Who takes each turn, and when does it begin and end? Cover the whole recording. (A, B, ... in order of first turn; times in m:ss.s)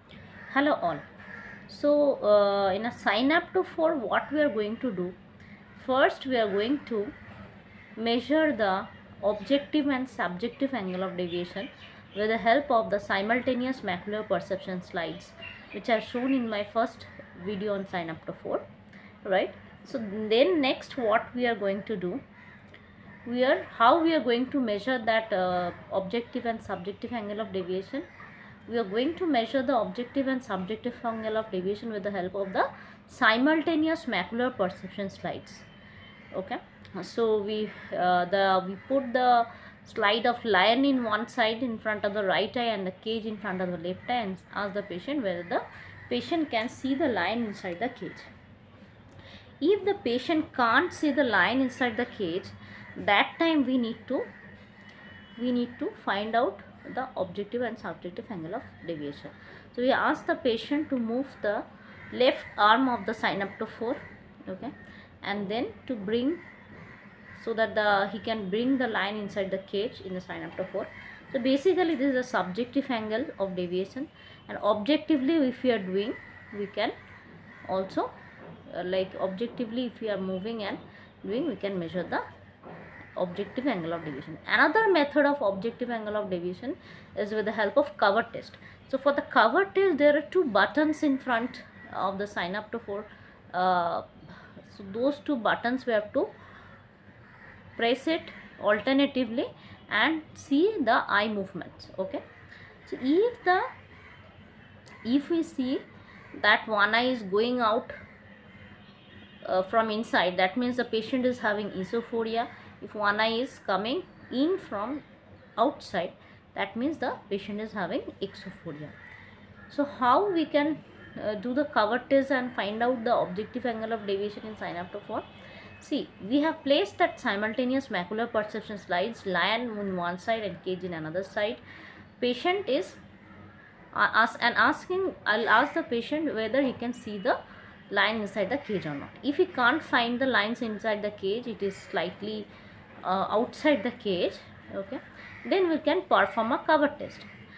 0:00.5-0:01.0 A
0:01.7-0:05.2 A
0:05.8-0:07.1 A
0:08.0-0:18.6 A
0:19.2-0:22.2 A
0:23.2-0:28.0 A
0:28.7-0:35.6 A
0:36.3-0:48.3 A
0:49.6-0:54.3 A
0:55.4-1:06.4 A
1:07.3-1:16.9 A
1:17.7-1:18.1 A
1:18.7-1:22.2 A
1:23.2-1:36.3 A
1:37.8-1:42.2 A
1:42.8-1:43.7 A
1:45.0-1:47.9 A
1:49.4-1:55.0 A
1:55.6-1:58.9 A
1:59.7-2:05.2 A
2:05.8-2:11.6 A
2:12.2-2:13.0 A
2:13.9-2:17.4 A
2:17.9-2:22.5 A
2:23.0-2:27.3 A